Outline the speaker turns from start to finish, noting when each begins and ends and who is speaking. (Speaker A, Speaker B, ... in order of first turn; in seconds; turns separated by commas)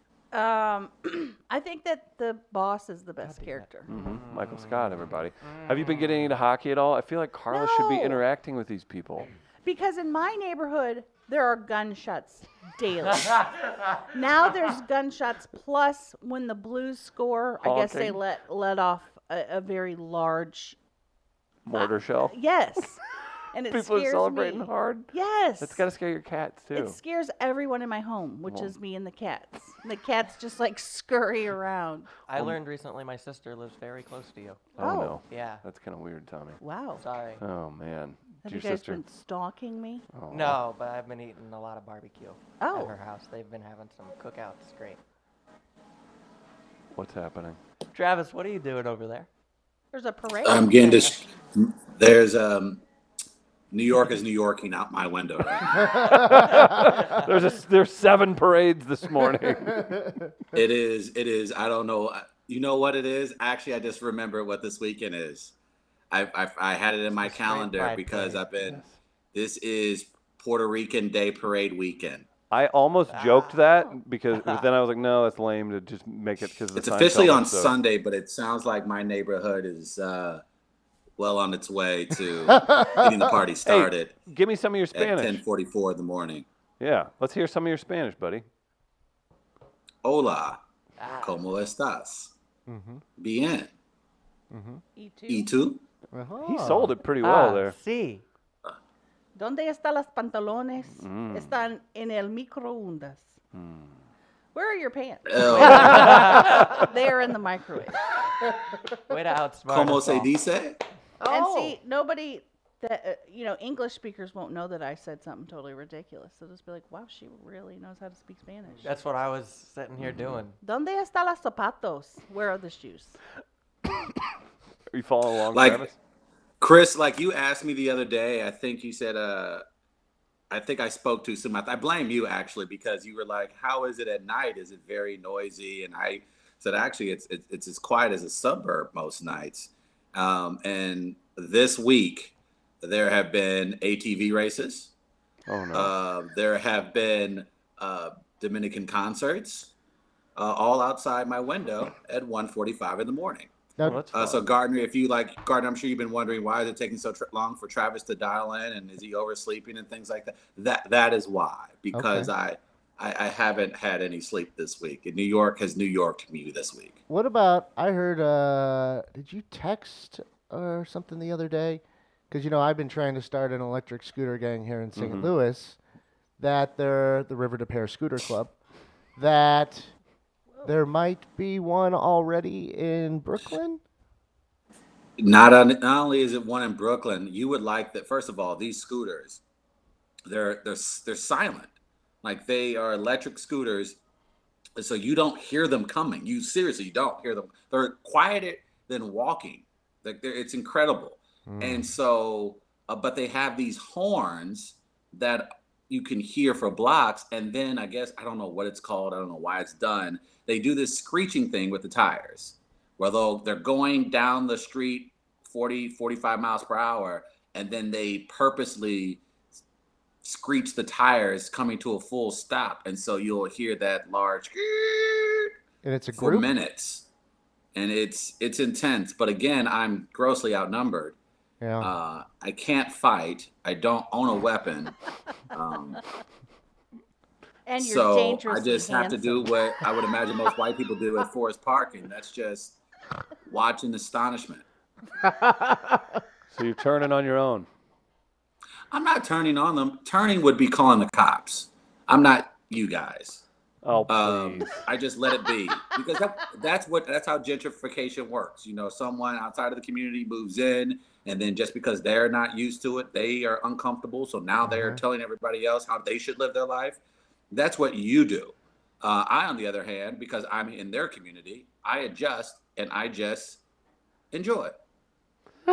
Speaker A: 0.3-3.9, Speaker B: 3.2-6.3, Speaker C: 3.9-9.3, Speaker A: 7.5-8.2, Speaker A: 9.7-13.5, Speaker B: 13.2-14.0, Speaker A: 14.1-20.8, Speaker C: 17.6-18.2, Speaker C: 21.7-22.4, Speaker A: 21.7-23.0, Speaker A: 23.5-25.9, Speaker C: 23.7-27.0, Speaker A: 26.7-32.1, Speaker C: 28.5-28.7, Speaker B: 32.3-35.6, Speaker C: 32.3-32.6, Speaker C: 34.8-36.6, Speaker A: 34.8-35.2, Speaker A: 36.6-37.0, Speaker B: 37.0-37.4, Speaker C: 37.4-39.0, Speaker A: 38.5-40.0, Speaker C: 40.1-40.6, Speaker B: 40.3-45.0, Speaker A: 42.6-42.9, Speaker C: 46.9-47.6, Speaker B: 47.9-49.3, Speaker A: 49.9-51.2, Speaker D: 50.4-52.8, Speaker D: 53.7-56.0, Speaker C: 55.6-60.0, Speaker E: 55.9-57.0, Speaker E: 59.7-60.3, Speaker D: 60.5-65.5, Speaker D: 66.1-68.8, Speaker B: 67.1-68.4, Speaker C: 68.6-69.0, Speaker D: 69.3-72.3, Speaker C: 72.5-77.8, Speaker B: 73.1-73.6, Speaker D: 76.8-80.4, Speaker D: 81.2-84.2, Speaker E: 82.5-83.2, Speaker C: 83.7-85.4, Speaker D: 84.9-86.5, Speaker C: 86.8-88.5, Speaker D: 90.0-90.6, Speaker B: 91.0-91.4, Speaker D: 91.2-92.3, Speaker E: 92.7-93.0, Speaker D: 93.2-93.7, Speaker E: 94.5-94.8, Speaker A: 95.0-95.5, Speaker D: 95.3-95.8, Speaker E: 96.1-96.9, Speaker C: 96.4-97.8, Speaker B: 97.2-98.2, Speaker A: 99.4-103.4, Speaker C: 101.0-101.5, Speaker C: 103.5-104.0, Speaker A: 104.5-108.0, Speaker D: 105.3-106.5, Speaker B: 105.7-106.5, Speaker B: 109.1-110.3, Speaker D: 109.7-110.8, Speaker E: 111.2-111.8, Speaker A: 111.3-118.9, Speaker B: 118.8-120.6, Speaker C: 120.0-120.4, Speaker A: 120.6-123.2, Speaker C: 124.9-126.0, Speaker D: 125.5-125.8, Speaker D: 126.6-129.6, Speaker D: 130.5-144.9, Speaker C: 145.5-145.9, Speaker D: 145.7-149.7, Speaker D: 150.4-153.5, Speaker E: 153.8-154.1, Speaker C: 153.8-154.5, Speaker D: 154.1-167.0, Speaker E: 161.9-162.3, Speaker E: 167.1-175.8, Speaker C: 175.0-175.3, Speaker E: 176.4-178.6, Speaker E: 179.2-179.9, Speaker E: 180.6-183.8, Speaker D: 185.2-189.4, Speaker D: 190.3-194.0, Speaker D: 194.8-219.2, Speaker E: 201.5-201.9, Speaker D: 220.2-225.5, Speaker E: 225.8-226.5, Speaker D: 226.1-227.1, Speaker D: 227.8-231.2, Speaker E: 231.6-231.9, Speaker D: 231.8-235.0, Speaker D: 235.5-236.1, Speaker A: 237.7-239.5, Speaker D: 237.8-242.8, Speaker D: 243.5-244.7, Speaker E: 245.2-246.0, Speaker C: 246.5-247.7, Speaker D: 248.9-253.4, Speaker C: 253.8-254.8, Speaker D: 254.1-267.0, Speaker E: 264.7-265.0, Speaker D: 267.5-273.6, Speaker D: 274.3-274.8